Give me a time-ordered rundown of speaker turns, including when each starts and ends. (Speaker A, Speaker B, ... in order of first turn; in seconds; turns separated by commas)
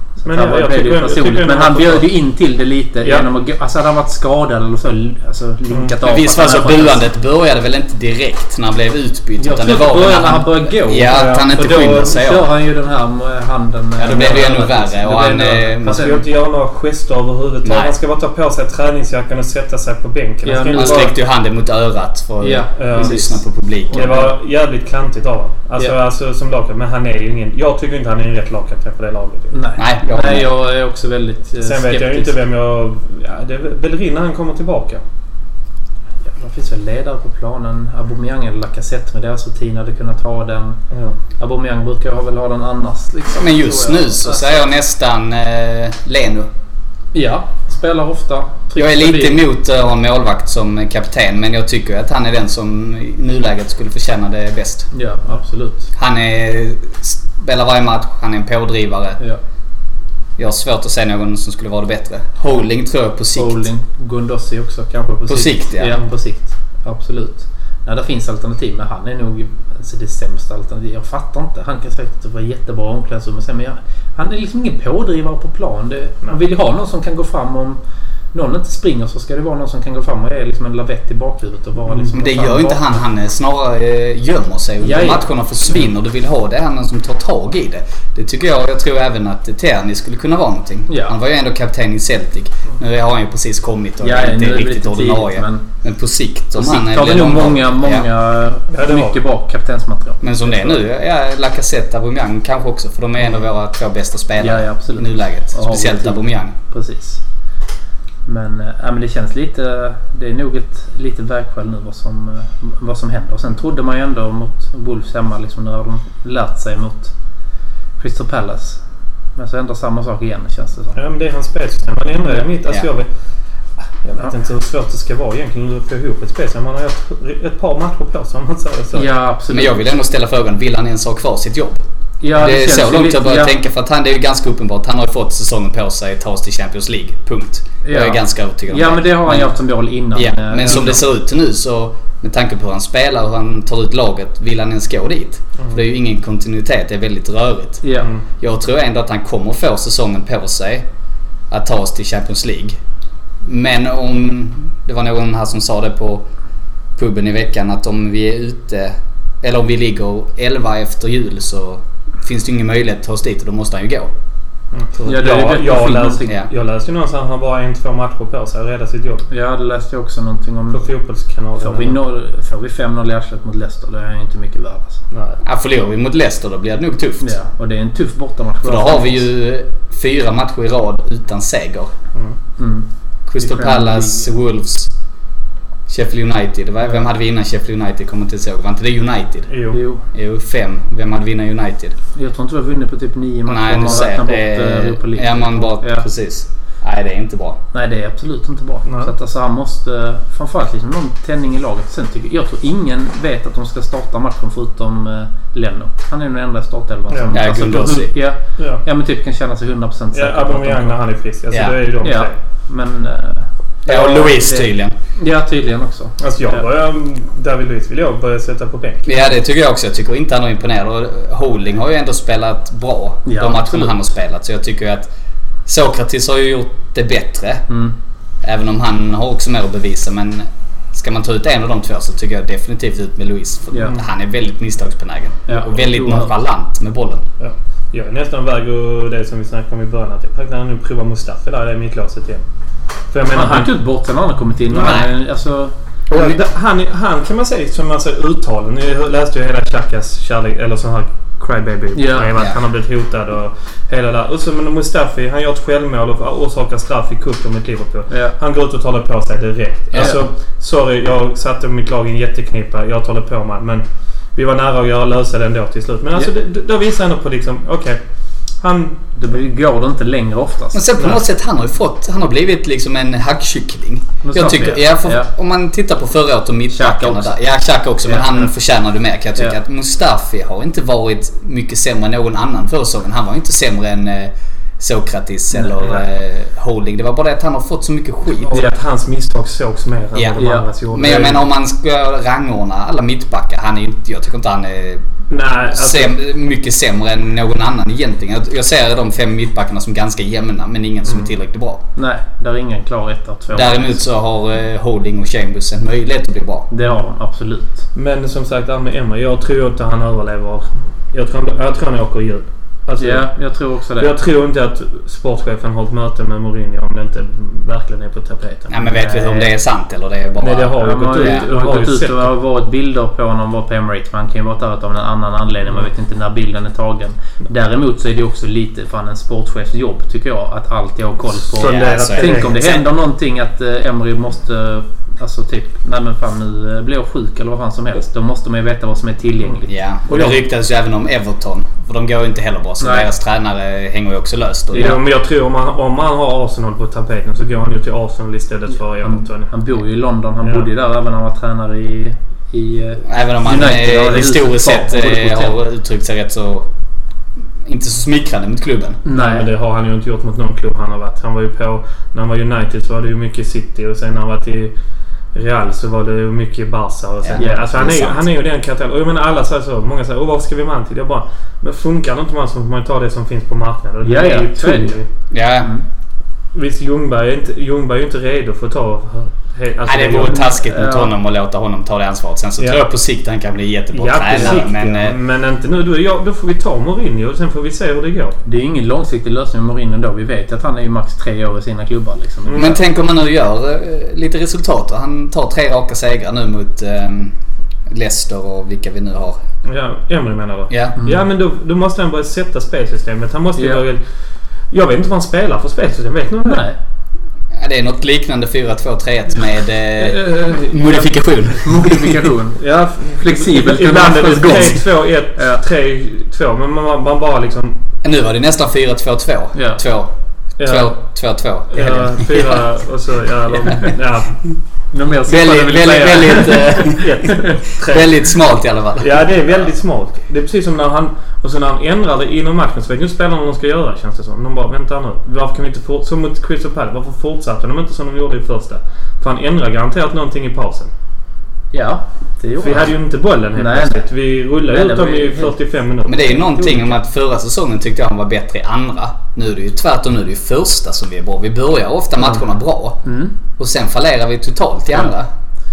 Speaker A: 0.2-7.0, Speaker B: 0.2-2.1, Speaker B: 3.0-3.3, Speaker C: 6.0-12.5, Speaker A: 9.4-16.2, Speaker B: 11.1-12.1, Speaker C: 14.0-16.1, Speaker B: 14.1-14.5, Speaker B: 15.8-21.1, Speaker C: 17.6-17.9, Speaker A: 20.4-21.1, Speaker C: 20.8-24.2, Speaker A: 22.4-24.3, Speaker B: 22.8-23.2, Speaker B: 23.9-29.6, Speaker A: 29.5-32.3, Speaker C: 29.8-30.5, Speaker B: 31.6-35.0, Speaker A: 36.2-40.8, Speaker B: 40.9-41.2, Speaker A: 41.4-44.6, Speaker C: 43.3-46.5, Speaker A: 47.1-49.4, Speaker C: 48.8-54.9, Speaker A: 54.9-55.9, Speaker C: 55.9-59.2, Speaker C: 60.4-63.6, Speaker A: 63.3-77.8, Speaker C: 65.3-65.9, Speaker A: 78.3-82.8, Speaker C: 82.1-98.1, Speaker A: 84.8-85.2, Speaker A: 90.9-91.2, Speaker A: 94.0-95.6, Speaker A: 96.5-100.8, Speaker B: 98.7-99.2, Speaker C: 100.2-106.5, Speaker A: 104.4-107.2, Speaker A: 108.2-117.1, Speaker A: 118.0-118.8, Speaker A: 119.3-121.0, Speaker B: 120.9-123.1, Speaker B: 124.0-129.1, Speaker A: 128.9-129.8, Speaker C: 129.5-139.5, Speaker A: 132.2-133.5, Speaker A: 137.8-141.0, Speaker C: 140.1-147.8, Speaker A: 147.8-148.1, Speaker C: 148.4-150.9, Speaker C: 151.5-152.8, Speaker C: 153.4-156.3, Speaker C: 156.9-164.1, Speaker B: 164.7-169.2, Speaker A: 165.0-166.3, Speaker A: 169.3-170.9, Speaker B: 170.7-172.0, Speaker A: 171.6-175.0, Speaker B: 175.1-175.4, Speaker C: 175.4-177.3, Speaker A: 177.2-179.2, Speaker C: 178.6-181.9, Speaker A: 182.6-182.9, Speaker C: 183.3-184.9, Speaker A: 183.4-184.3, Speaker C: 185.9-189.5, Speaker B: 189.5-189.8, Speaker A: 189.7-190.0, Speaker C: 190.1-191.9, Speaker A: 192.1-196.1, Speaker C: 193.5-197.6, Speaker A: 197.7-211.0, Speaker B: 198.8-199.1, Speaker B: 207.1-208.0, Speaker C: 207.3-208.1, Speaker B: 208.6-208.8, Speaker B: 210.1-212.3, Speaker C: 211.5-211.8, Speaker A: 212.0-216.6, Speaker C: 213.8-214.9, Speaker B: 216.2-219.2, Speaker C: 219.1-225.1, Speaker A: 223.2-224.0, Speaker C: 225.7-227.7, Speaker A: 227.7-227.9, Speaker C: 228.4-237.2, Speaker A: 235.5-236.3, Speaker B: 237.4-242.4, Speaker B: 243.1-243.8, Speaker A: 243.3-245.7, Speaker B: 244.7-245.1, Speaker C: 244.8-245.1, Speaker C: 246.1-246.4, Speaker B: 246.1-268.0, Speaker A: 251.9-252.3, Speaker C: 259.9-260.2, Speaker A: 260.0-260.2, Speaker B: 268.6-269.0, Speaker A: 269.1-270.8, Speaker C: 270.7-288.6, Speaker A: 274.2-275.3, Speaker A: 276.7-277.3, Speaker A: 278.0-278.5, Speaker A: 285.5-286.0, Speaker B: 288.4-291.4, Speaker C: 290.1-290.4, Speaker A: 290.4-290.6, Speaker C: 290.9-295.1, Speaker B: 295.3-296.1, Speaker C: 295.7-301.8, Speaker B: 301.0-301.3, Speaker A: 301.9-304.0, Speaker C: 303.5-306.7, Speaker A: 306.7-307.8, Speaker B: 307.9-313.3, Speaker A: 313.0-314.1, Speaker B: 314.0-318.8, Speaker C: 318.7-321.5, Speaker A: 318.8-319.5, Speaker B: 320.4-322.3, Speaker A: 320.8-340.4, Speaker B: 331.4-332.6, Speaker C: 331.6-332.8, Speaker C: 339.7-345.0, Speaker A: 342.8-343.1, Speaker A: 344.7-345.0, Speaker B: 344.7-349.5, Speaker A: 349.0-355.6, Speaker C: 353.0-356.7, Speaker C: 357.6-359.0, Speaker A: 359.0-359.5, Speaker B: 359.1-364.7, Speaker B: 365.3-375.1, Speaker C: 367.2-367.9, Speaker A: 367.4-368.1, Speaker A: 374.0-375.0, Speaker C: 375.3-375.7, Speaker B: 376.5-380.5, Speaker C: 379.9-385.2, Speaker A: 380.3-381.1, Speaker B: 383.9-388.4, Speaker A: 384.3-384.6, Speaker A: 388.4-392.8, Speaker B: 392.4-392.8, Speaker C: 392.5-399.4, Speaker B: 399.6-404.0, Speaker C: 400.7-401.0, Speaker A: 401.0-401.2, Speaker A: 403.6-403.8, Speaker B: 404.7-406.7, Speaker A: 406.4-406.8, Speaker C: 407.5-412.2, Speaker B: 410.0-411.1, Speaker A: 411.6-415.6, Speaker B: 412.6-417.8, Speaker C: 418.0-422.1, Speaker A: 419.5-419.8, Speaker B: 420.6-421.0, Speaker B: 421.7-424.4, Speaker A: 424.9-427.5, Speaker C: 425.2-429.1, Speaker B: 426.1-428.2, Speaker B: 429.0-440.9, Speaker A: 441.7-442.9, Speaker B: 442.6-446.4, Speaker A: 443.5-444.1, Speaker A: 444.7-445.6, Speaker C: 446.1-453.0, Speaker A: 446.5-446.9, Speaker A: 453.0-453.3, Speaker C: 453.6-455.3